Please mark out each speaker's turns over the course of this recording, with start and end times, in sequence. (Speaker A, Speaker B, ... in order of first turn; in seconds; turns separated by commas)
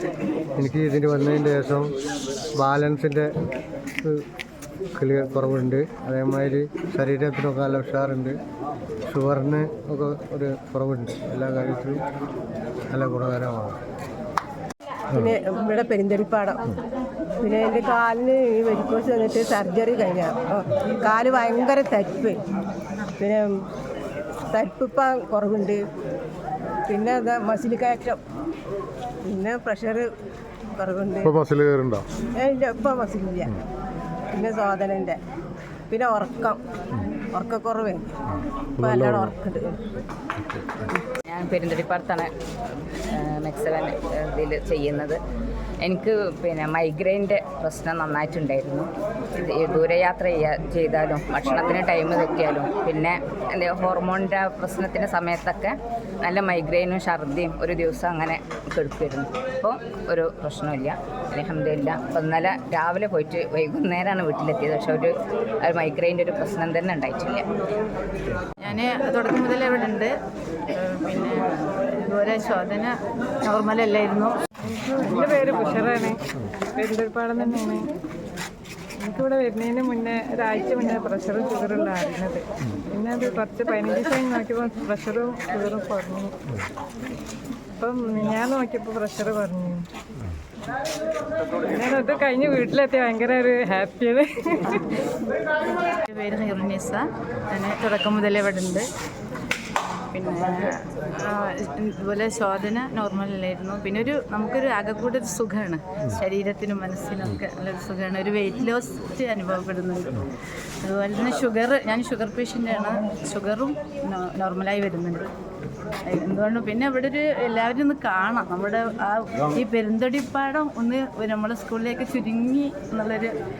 Speaker A: 0.6-1.9, Speaker A: 2.6-3.3, Speaker A: 5.0-8.3, Speaker A: 9.1-12.0, Speaker A: 12.9-13.8, Speaker B: 15.1-16.6, Speaker B: 17.4-22.4, Speaker B: 23.2-23.5, Speaker B: 24.5-25.8, Speaker B: 26.9-28.2, Speaker B: 29.2-30.1, Speaker B: 30.8-31.5, Speaker B: 32.4-33.5, Speaker B: 34.3-35.2, Speaker B: 35.9-36.6, Speaker B: 37.3-38.1, Speaker B: 38.8-39.8, Speaker C: 41.1-42.3, Speaker C: 43.1-45.2, Speaker C: 45.8-65.1, Speaker C: 65.6-67.5, Speaker D: 68.6-70.1, Speaker D: 70.7-71.5, Speaker D: 72.0-72.9, Speaker D: 73.4-74.3, Speaker E: 74.7-76.2, Speaker E: 76.8-77.9, Speaker E: 79.0-86.3, Speaker E: 87.8-89.8, Speaker E: 91.6-94.8, Speaker D: 95.9-98.8, Speaker D: 100.1-100.5, Speaker D: 101.2-110.2, Speaker D: 110.8-115.3, Speaker D: 116.1-123.3